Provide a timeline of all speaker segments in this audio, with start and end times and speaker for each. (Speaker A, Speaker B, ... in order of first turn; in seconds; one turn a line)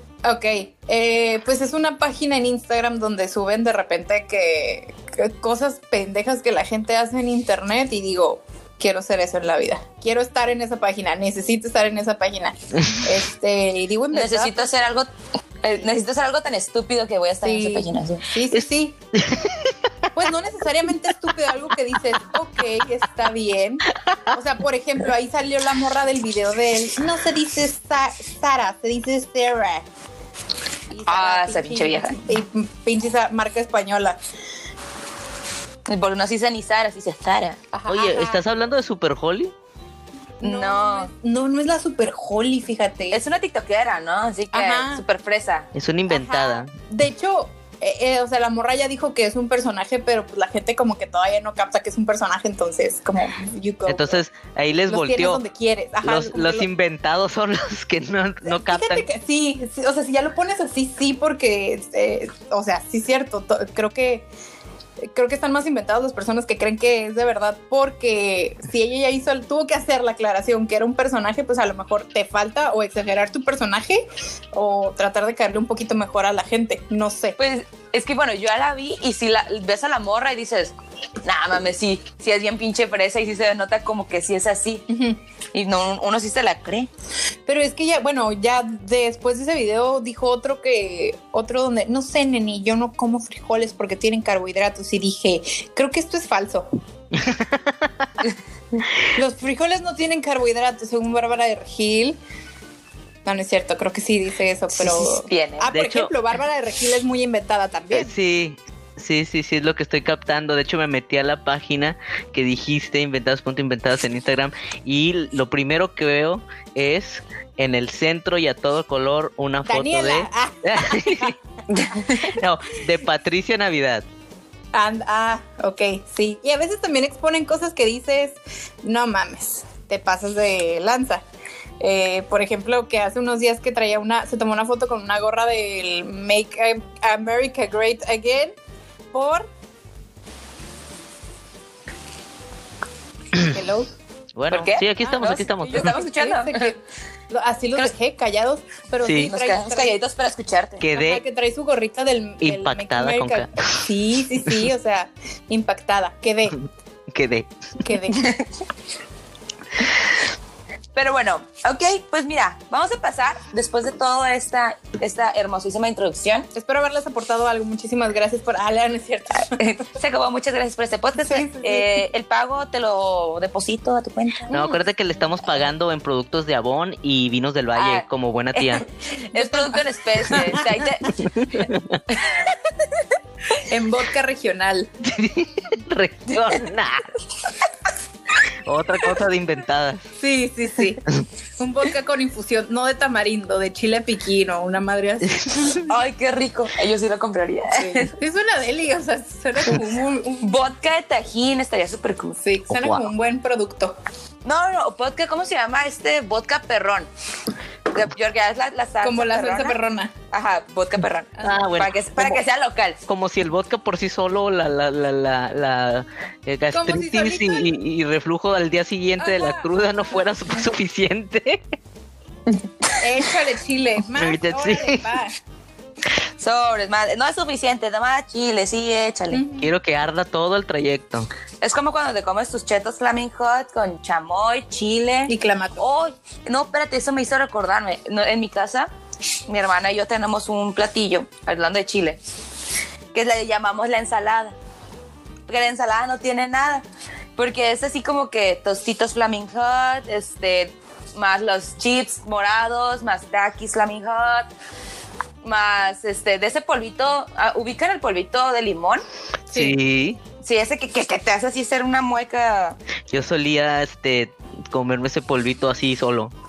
Speaker A: 0.2-14.7
Speaker B: 14.1-15.1
Speaker B: 15.6-18.2
Speaker A: 17.4-19.0
Speaker C: 19.1-19.8
Speaker A: 20.1-29.8
Speaker A: 30.9-34.2
Speaker B: 31.1-32.2
Speaker B: 35.9-37.6
Speaker A: 37.7-38.4
Speaker C: 37.9-39.5
Speaker A: 40.4-43.2
Speaker B: 40.4-41.1
Speaker B: 43.1-45.7
Speaker A: 44.5-45.0
Speaker C: 45.7-46.7
Speaker A: 46.1-54.2
Speaker C: 53.8-55.4
Speaker A: 54.9-56.7
Speaker C: 56.0-59.1
Speaker A: 58.5-64.2
Speaker A: 65.0-77.4
Speaker B: 77.4-84.8
Speaker A: 84.9-85.2
Speaker B: 85.5-86.9
Speaker A: 87.5-96.7
Speaker C: 97.1-98.0
Speaker A: 99.1-102.2
Speaker A: 103.2-108.1
Speaker B: 104.9-105.7
Speaker C: 105.7-106.1
Speaker C: 107.9-121.3
Speaker A: 119.7-121.3
Speaker B: 121.7-122.3
Speaker C: 121.9-124.0
Speaker A: 124.7-131.2
Speaker A: 131.8-138.5
Speaker A: 139.1-139.5
Speaker A: 143.3-143.9
Speaker C: 144.3-145.9
Speaker B: 144.5-146.7
Speaker A: 145.0-146.8
Speaker A: 147.3-149.9
Speaker C: 149.0-149.3
Speaker B: 149.2-150.8
Speaker C: 150.8-151.2
Speaker A: 150.9-156.6
Speaker C: 152.4-153.8
Speaker C: 157.1-157.5
Speaker A: 157.8-158.2
Speaker B: 158.1-158.5
Speaker B: 160.9-166.5
Speaker A: 166.5-169.8
Speaker B: 169.5-174.6
Speaker A: 171.2-172.0
Speaker C: 174.5-178.8
Speaker B: 177.7-181.2
Speaker A: 179.3-180.6
Speaker C: 181.3-182.0
Speaker B: 182.1-182.6
Speaker A: 183.5-184.9
Speaker C: 185.0-187.1
Speaker C: 188.6-190.0
Speaker A: 190.2-191.0
Speaker A: 191.6-195.9
Speaker B: 195.8-198.1
Speaker A: 197.7-200.6
Speaker B: 200.4-202.4
Speaker A: 202.4-203.9
Speaker C: 202.7-203.1
Speaker B: 204.4-207.1
Speaker B: 207.9-209.8
Speaker A: 209.0-210.1
Speaker B: 210.3-213.0
Speaker C: 211.4-212.4
Speaker C: 213.1-221.6
Speaker A: 216.7-217.7
Speaker A: 219.2-219.7
Speaker A: 223.0-225.3
Speaker C: 224.1-225.2
Speaker B: 226.4-229.4
Speaker A: 229.3-229.7
Speaker C: 229.6-231.3
Speaker B: 231.6-238.9
Speaker A: 235.3-235.8
Speaker B: 239.5-242.2
Speaker B: 243.1-244.6
Speaker B: 245.5-246.8
Speaker B: 247.3-254.5
Speaker B: 255.4-259.0
Speaker A: 259.5-259.8
Speaker C: 259.5-260.2
Speaker B: 260.4-262.8
Speaker C: 263.1-266.3